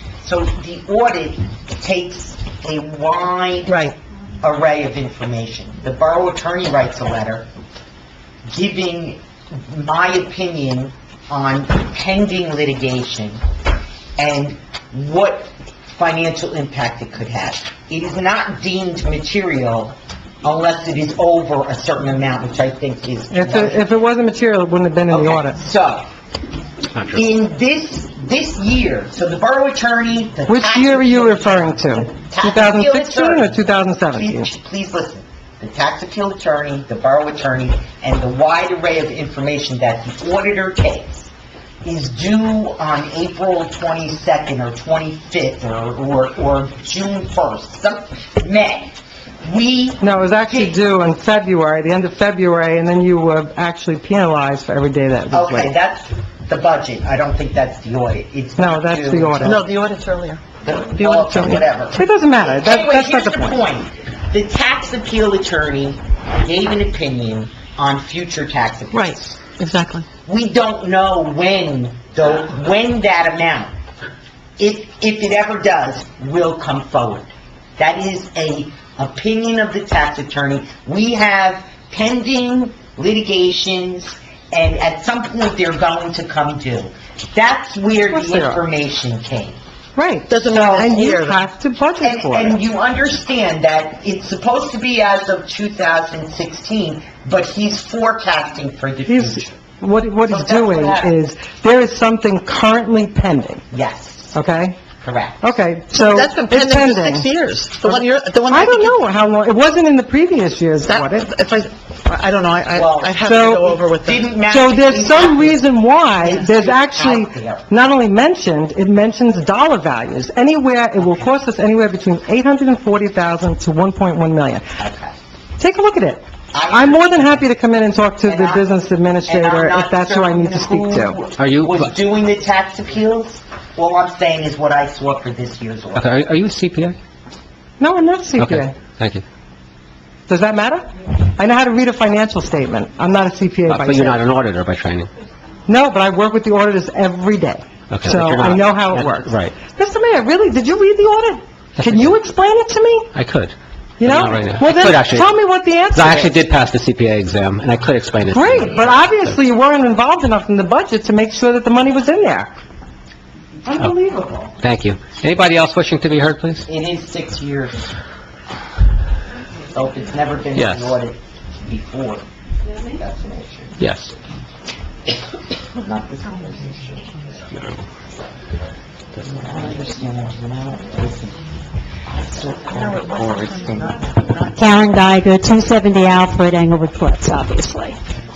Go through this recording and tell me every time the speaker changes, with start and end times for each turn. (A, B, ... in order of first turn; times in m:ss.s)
0:00.2-0:03.9 A
0:04.4-0:07.5 A
0:08.5-0:13.4 A
0:14.2-0:23.9 A
0:23.3-0:25.6 B
0:25.1-0:26.1 A
0:27.1-0:41.3 A
0:30.5-0:34.5 B
0:41.8-0:50.8 A
0:50.0-0:55.7 B
0:55.3-0:59.6 A
0:58.6-0:59.6 B
0:59.4-1:00.4 C
1:00.6-1:09.4 A
1:01.0-1:01.5 C
1:01.3-1:03.6 B
1:08.9-1:10.0 C
1:10.3-1:13.7 A
1:14.6-1:29.6 A
1:28.1-1:28.6 B
1:30.0-1:32.6 B
1:30.3-1:31.4 C
1:30.5-1:31.0 A
1:32.0-1:39.5 A
1:39.1-1:43.6 B
1:40.3-1:41.2 A
1:43.7-1:44.4 A
1:44.3-1:44.8 B
1:45.0-1:45.6 A
1:45.4-1:47.3 B
1:45.9-1:49.0 C
1:47.8-1:51.3 B
1:50.8-1:54.3 C
1:52.7-1:53.2 A
1:53.2-1:53.8 B
1:54.0-1:57.7 A
1:54.5-2:04.6 B
2:04.8-2:05.1 A
2:05.6-2:11.2 B
2:06.5-2:07.4 A
2:08.2-2:08.7 A
2:09.3-2:16.2 A
2:11.4-2:11.9 D
2:16.0-2:17.0 D
2:17.8-2:18.8 B
2:18.4-2:19.2 D
2:20.3-2:24.2 B
2:23.7-2:25.1 D
2:25.7-2:33.1 B
2:27.9-2:29.5 D
2:31.8-2:32.1 D
2:33.2-2:33.5 D
2:34.0-2:36.4 B
2:34.1-2:35.3 D
2:35.9-2:39.3 D
2:38.3-2:42.5 B
2:43.7-2:44.5 B
2:44.6-2:46.7 D
2:46.7-2:47.9 A
2:49.7-2:52.2 A
2:50.6-2:51.0 D
2:52.9-2:53.8 A
2:53.8-2:54.1 D
2:55.8-2:57.8 A
2:59.2-3:01.4 A
3:02.1-3:04.0 A
3:04.6-3:08.0 E